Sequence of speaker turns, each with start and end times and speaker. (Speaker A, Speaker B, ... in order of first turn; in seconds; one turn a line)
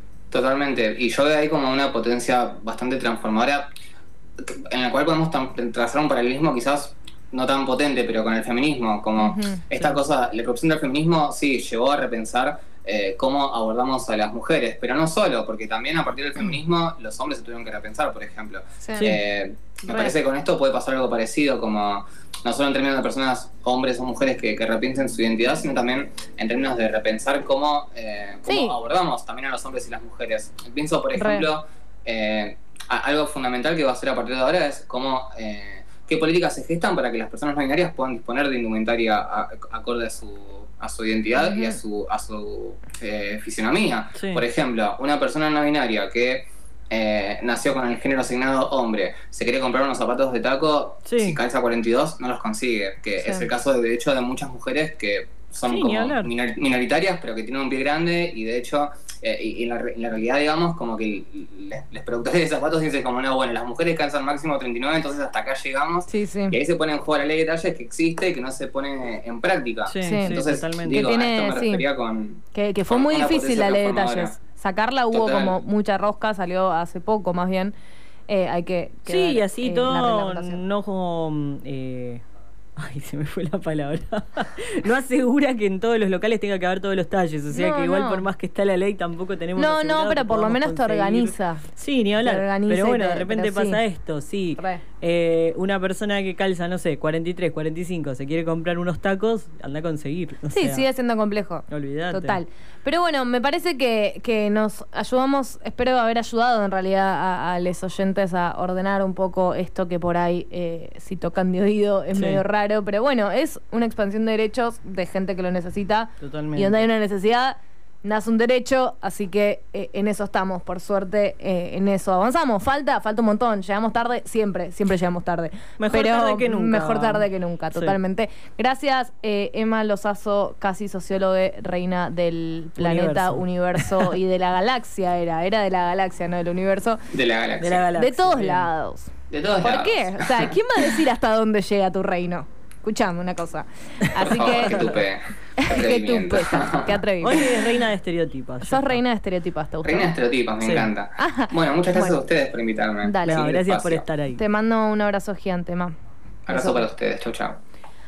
Speaker A: 0.3-3.7
Speaker A: 4.4-74.3
Speaker B: 9.2-9.6
Speaker B: 18.8-19.1
Speaker B: 19.9-20.1
Speaker B: 28.5-28.8
Speaker B: 31.1-31.5
Speaker B: 41.4-41.8
Speaker C: 44.2-44.4
Speaker C: 51.0-51.4
Speaker B: 53.2-53.5
Speaker C: 55.7-56.3
Speaker B: 66.1-66.6
Speaker C: 69.9-71.1
Speaker B: 70.0-71.8
Speaker B: 72.5-77.7
Speaker A: 75.1-75.6
Speaker B: 78.3-80.6
Speaker C: 79.1-82.2
Speaker C: 82.8-100.8
Speaker B: 87.5-88.3
Speaker B: 89.6-91.7
Speaker B: 92.2-93.8
Speaker B: 100.5-137.0
Speaker C: 101.7-102.4
Speaker C: 112.1-112.4
Speaker C: 116.2-116.8
Speaker C: 125.8-128.0
Speaker C: 132.8-134.0
Speaker A: 137.1-137.9
Speaker C: 137.6-138.7
Speaker B: 138.0-144.9
Speaker A: 139.3-140.5
Speaker A: 144.2-147.0
Speaker C: 144.4-144.9
Speaker B: 145.6-147.5
Speaker C: 147.2-149.0
Speaker B: 148.6-150.1
Speaker A: 149.8-154.1
Speaker C: 150.6-150.9
Speaker B: 151.2-152.2
Speaker B: 153.0-153.5
Speaker C: 153.2-154.4
Speaker B: 154.3-155.9
Speaker A: 156.5-157.6
Speaker B: 156.5-156.9